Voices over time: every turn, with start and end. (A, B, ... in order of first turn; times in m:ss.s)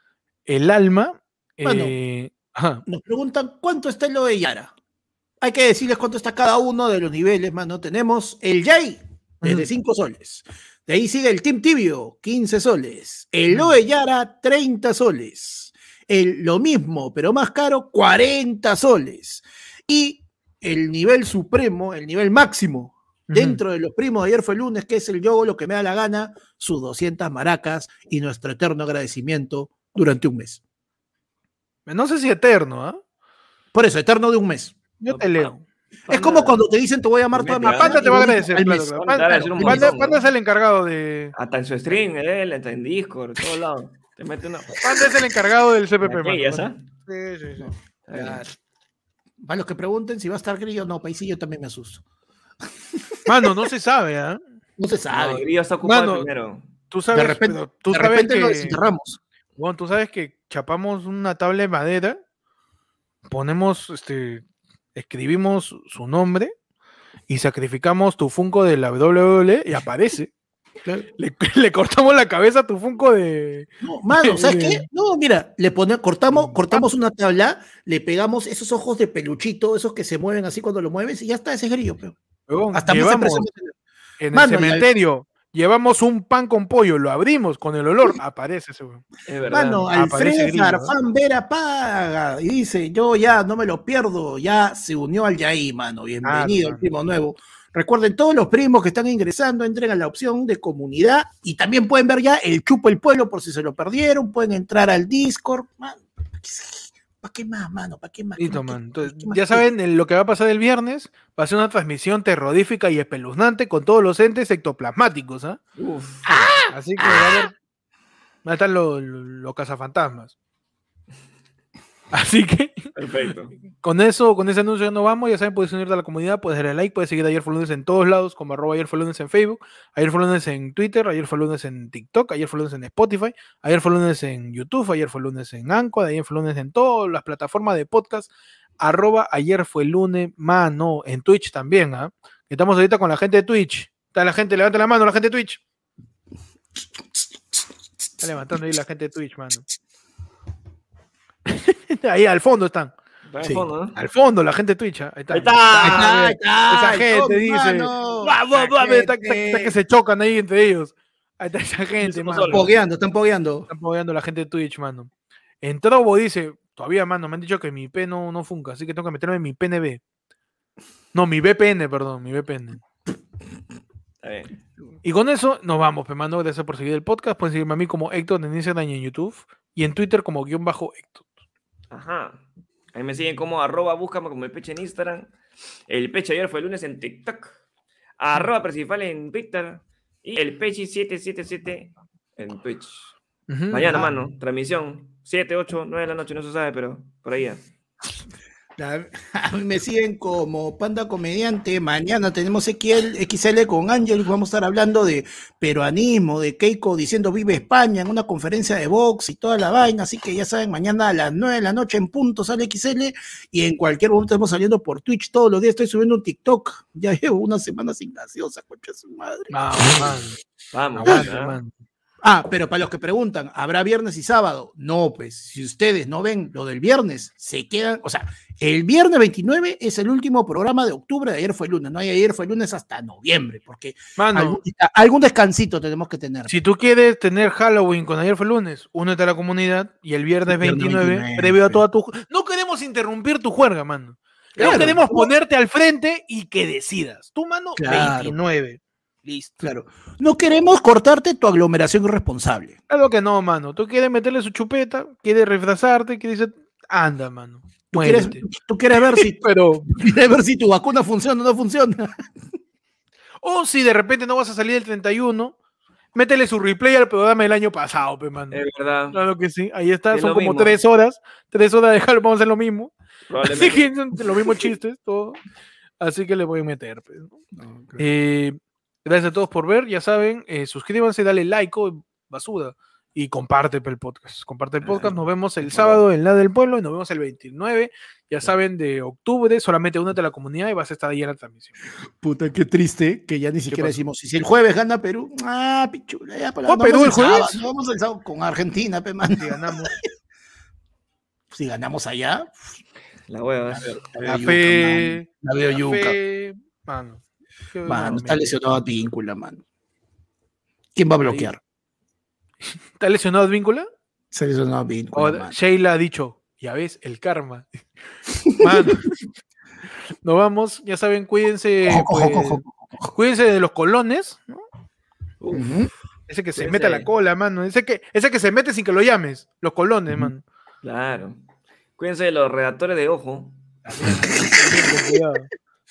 0:00.5-0:02.8 A
0:01.6-0:02.0 B
0:02.9-0:04.7 B
0:05.4-0:30.6 B
0:09.4-0:09.7 A
0:23.3-0:23.6 A
0:31.9-0:33.0 A
0:33.7-0:34.8 B
0:35.0-0:35.6 A
0:35.1-0:35.5 C
0:36.1-0:36.6 C
0:36.1-0:40.0 B
0:37.3-0:38.1 C
0:37.6-0:41.3 A
0:39.0-0:40.2 C
0:41.4-0:44.8 C
0:44.8-0:47.7 A
0:46.0-0:46.8 C
0:47.6-0:48.4 B
0:48.1-0:48.4 C
0:49.4-0:52.0 B
0:52.9-0:53.2 B
0:53.3-0:54.4 A
0:54.8-0:55.4 B
0:55.1-0:56.7 C
0:55.8-0:56.3 A
0:56.9-0:58.8 A
0:57.1-0:59.2 B
0:59.6-1:02.2 A
1:03.3-1:04.4 A
1:05.0-1:06.5 A
1:07.3-1:10.3 A
1:11.2-1:14.8 A
1:13.8-1:22.2 B
1:16.3-1:16.9 A
1:22.5-1:23.5 A
1:22.7-1:23.7 B
1:24.2-1:29.0 A
1:24.3-1:24.9 B
1:29.3-1:29.9 C
1:29.5-1:49.7 B
1:29.9-1:30.9 A
1:36.2-1:36.8 A
1:48.4-1:55.6 A
1:55.8-1:56.3 C
1:56.2-1:57.4 B
1:56.7-1:57.6 A
1:58.4-2:00.4 A
2:02.1-2:02.9 A
2:03.0-2:03.6 C
2:03.8-2:18.3 A
2:18.8-2:25.6 A
2:28.2-2:29.6 A
2:31.5-2:32.9 A
2:33.3-2:34.0 C
2:34.0-2:42.7 A
2:35.3-2:36.2 C
2:35.8-2:39.8 B
2:42.0-2:42.7 C
2:42.5-2:43.7 B
2:43.7-2:45.1 A
2:45.6-2:50.0 A
2:51.1-2:52.8 A
2:54.2-2:54.6 C
2:55.0-3:01.2 A
3:01.9-3:02.4 C
3:02.9-3:05.3 C
3:05.9-3:07.6 C
3:08.2-3:13.2 C
3:13.5-3:14.0 A
3:13.7-3:17.6 C
3:18.8-3:40.2 B
3:39.5-3:40.4 A
3:40.7-3:41.6 C
3:41.0-3:41.7 A
3:42.2-3:56.5 B
3:54.2-3:54.6 A
3:56.5-4:09.5 A
4:00.5-4:01.8 B
4:04.6-4:05.3 B
4:07.8-4:08.4 B
4:09.6-4:12.8 B
4:12.9-4:18.4 A
4:17.9-4:22.3 B
4:19.0-4:19.9 A
4:23.4-4:25.6 A
4:26.2-4:32.9 A
4:28.5-4:29.2 C
4:30.1-4:30.8 C
4:33.3-4:33.8 C
4:33.4-4:35.4 A
4:36.0-4:37.4 A
4:37.6-4:38.0 B
4:38.0-4:51.8 A
4:44.8-4:46.0 B
4:52.2-4:59.9 B
4:53.7-4:54.0 A
4:56.7-4:57.6 A
4:59.3-4:59.9 A
5:01.5-5:02.8 B
5:03.3-5:04.0 C
5:03.7-5:06.2 B
5:04.2-5:08.5 A
5:07.9-5:09.6 B
5:11.0-5:11.6 B
5:13.0-5:13.9 A
5:14.3-5:15.6 B
5:15.2-5:17.7 A
5:18.4-5:18.7 B
5:18.6-5:19.1 A
5:20.2-5:24.6 A
5:21.9-5:23.1 B
5:25.4-5:25.7 C
5:25.5-5:25.9 B
5:26.3-5:30.4 A
5:26.6-5:27.1 C
5:30.8-5:31.4 C
5:32.0-5:33.6 C
5:33.9-5:35.5 A
5:34.0-5:35.2 B